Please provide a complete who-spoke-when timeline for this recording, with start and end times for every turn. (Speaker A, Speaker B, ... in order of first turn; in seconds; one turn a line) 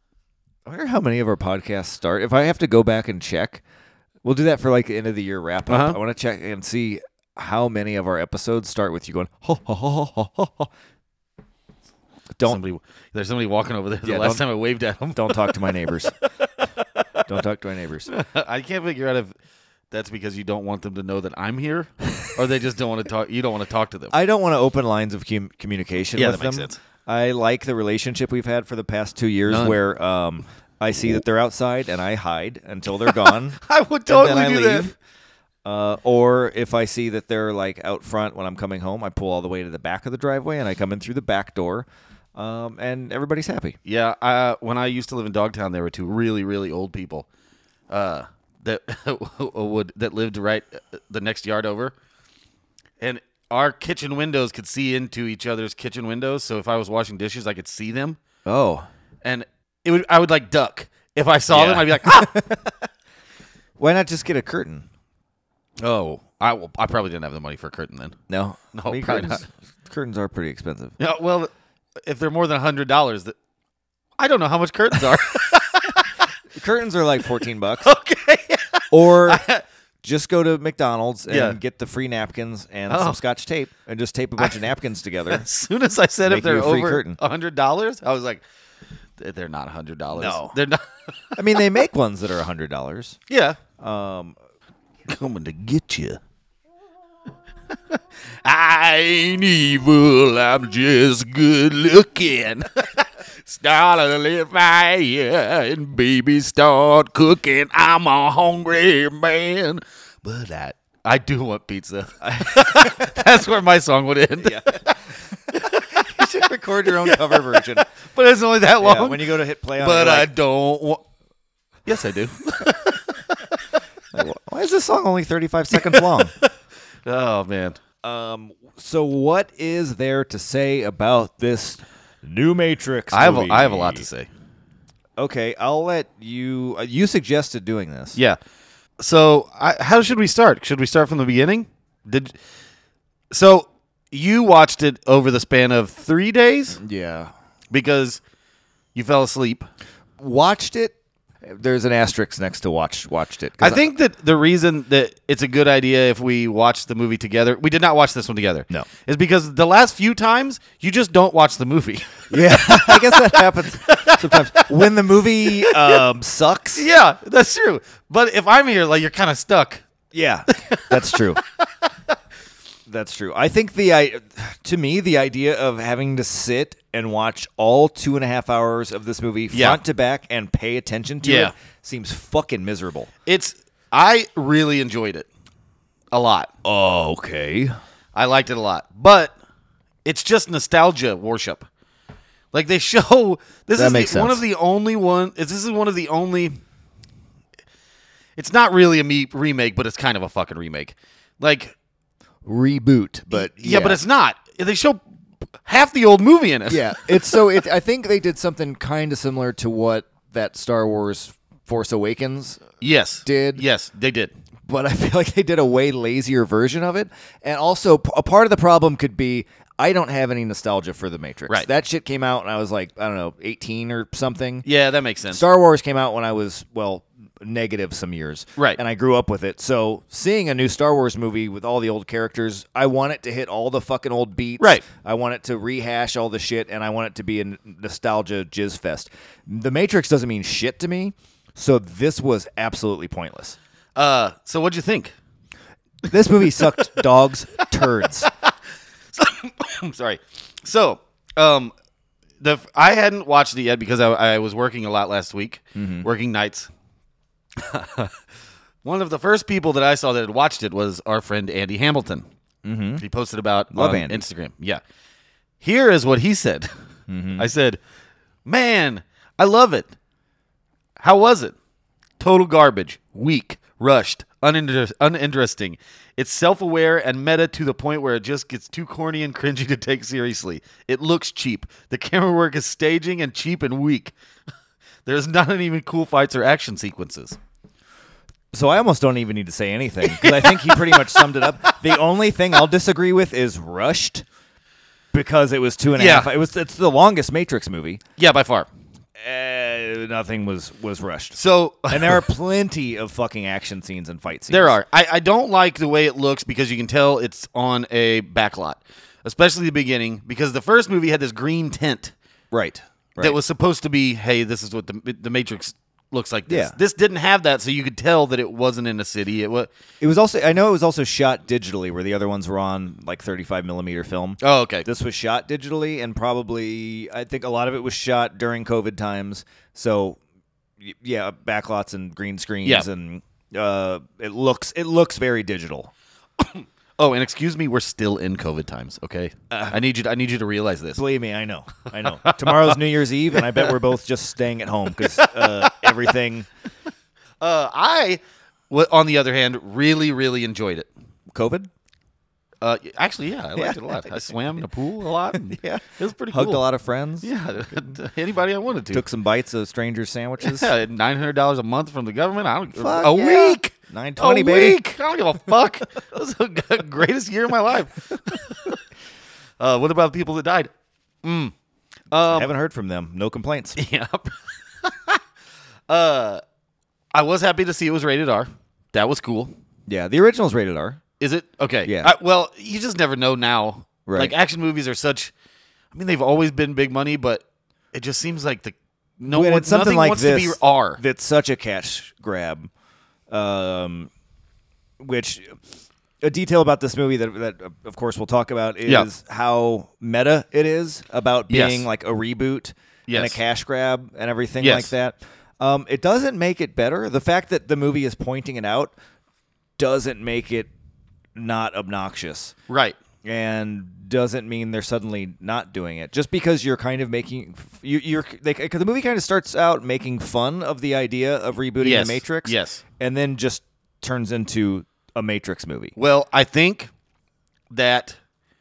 Speaker A: 0.7-3.6
Speaker A: 4.2-10.7
Speaker B: 5.7-6.0
Speaker B: 12.4-17.2
Speaker A: 14.1-14.4
Speaker A: 15.2-16.1
Speaker A: 17.2-18.1
Speaker B: 18.1-19.3
Speaker B: 19.9-24.1
Speaker A: 24.1-34.9
Speaker B: 26.1-26.8
Speaker B: 29.5-29.8
Speaker B: 33.1-34.9
Speaker A: 35.6-43.8
Speaker B: 43.9-47.3
Speaker B: 47.9-51.9
Speaker B: 53.0-58.2
Speaker A: 58.5-58.9
Speaker B: 59.2-62.4
Speaker A: 61.5-62.8
Speaker A: 63.8-64.9
Speaker B: 65.8-68.2
Speaker A: 68.3-71.0
Speaker B: 68.7-69.4
Speaker B: 71.0-71.5
Speaker B: 72.1-73.3
Speaker B: 74.2-76.1
Speaker A: 76.5-77.9
Speaker B: 77.8-79.6
Speaker A: 78.9-79.4
Speaker A: 80.0-85.5
Speaker B: 81.3-81.6
Speaker B: 82.9-83.2
Speaker B: 85.3-88.4
Speaker A: 86.3-87.2
Speaker B: 89.2-90.8
Speaker A: 90.2-90.5
Speaker A: 91.4-93.2
Speaker B: 93.3-93.6
Speaker A: 93.8-94.4
Speaker B: 95.1-96.2
Speaker B: 97.9-119.3
Speaker A: 112.2-113.3
Speaker A: 114.4-117.9
Speaker A: 118.8-120.3
Speaker B: 119.8-121.0
Speaker B: 121.9-123.8
Speaker A: 124.1-126.3
Speaker B: 125.7-126.5
Speaker B: 127.1-127.8
Speaker A: 128.0-134.1
Speaker B: 133.1-134.3
Speaker A: 135.2-138.2
Speaker B: 139.0-142.4
Speaker B: 143.3-146.8
Speaker A: 146.8-147.3
Speaker B: 147.7-148.2
Speaker B: 148.9-149.7
Speaker A: 150.2-153.9
Speaker B: 153.6-164.7
Speaker A: 162.3-166.9
Speaker B: 165.5-166.0
Speaker B: 166.8-169.8
Speaker A: 170.1-171.4
Speaker B: 170.5-171.9
Speaker A: 172.9-183.1
Speaker B: 179.5-179.8
Speaker B: 181.2-181.5
Speaker B: 183.3-185.3
Speaker B: 186.1-186.5
Speaker A: 186.6-187.7
Speaker B: 188.2-189.3
Speaker B: 190.1-191.7
Speaker B: 192.5-196.6
Speaker A: 193.8-194.4
Speaker B: 198.4-201.8
Speaker A: 202.4-204.0
Speaker B: 203.3-205.0
Speaker B: 205.6-207.4
Speaker A: 206.7-212.6
Speaker B: 212.8-214.3
Speaker A: 213.2-213.7
Speaker A: 214.7-224.7
Speaker B: 224.7-225.4
Speaker A: 225.3-243.6
Speaker B: 234.6-234.8
Speaker B: 244.0-245.1
Speaker A: 246.1-248.3
Speaker B: 246.4-247.0
Speaker B: 248.0-248.5
Speaker B: 249.1-251.7
Speaker B: 252.4-256.7
Speaker A: 255.8-256.1
Speaker B: 257.6-258.1
Speaker B: 258.8-262.3
Speaker A: 262.6-263.0
Speaker B: 263.0-264.8
Speaker A: 263.7-264.2
Speaker B: 265.6-266.7
Speaker A: 267.1-267.5
Speaker B: 267.4-267.8
Speaker B: 268.5-269.9
Speaker B: 271.0-271.6
Speaker B: 272.2-284.1
Speaker B: 285.1-287.4
Speaker A: 288.5-294.2
Speaker B: 290.0-292.0
Speaker A: 295.1-298.0
Speaker B: 295.9-296.3
Speaker B: 298.2-298.7
Speaker A: 299.2-304.8
Speaker B: 301.4-302.3
Speaker B: 304.5-312.1
Speaker A: 312.5-313.4
Speaker B: 313.2-319.7
Speaker A: 316.5-316.8
Speaker A: 320.0-330.2
Speaker B: 324.4-324.9
Speaker A: 330.8-335.9
Speaker B: 336.4-341.0
Speaker A: 339.5-339.8
Speaker A: 340.9-346.5
Speaker B: 342.0-342.8
Speaker B: 343.4-343.8
Speaker B: 345.0-345.9
Speaker B: 347.4-350.9
Speaker A: 351.3-351.7
Speaker B: 352.6-356.6
Speaker A: 353.6-354.5
Speaker A: 355.3-358.0
Speaker B: 357.2-359.0
Speaker A: 358.9-360.7
Speaker B: 360.4-368.8
Speaker A: 362.8-364.8
Speaker B: 369.6-370.7
Speaker B: 371.2-371.5
Speaker B: 372.1-372.5
Speaker A: 372.3-373.8
Speaker B: 373.8-375.2
Speaker B: 375.9-376.4
Speaker B: 377.1-379.5
Speaker A: 379.9-381.0
Speaker B: 381.2-385.3
Speaker A: 381.9-382.1
Speaker A: 384.1-384.3
Speaker B: 385.9-391.0
Speaker A: 389.2-392.7
Speaker A: 393.3-394.1
Speaker A: 395.0-395.6
Speaker A: 396.2-408.9
Speaker B: 401.5-401.9
Speaker B: 403.1-403.4
Speaker B: 404.6-404.9
Speaker A: 409.8-410.7
Speaker A: 411.4-412.6
Speaker B: 412.7-413.0
Speaker A: 413.2-425.9
Speaker B: 421.8-422.8
Speaker B: 426.0-426.9
Speaker B: 427.7-428.2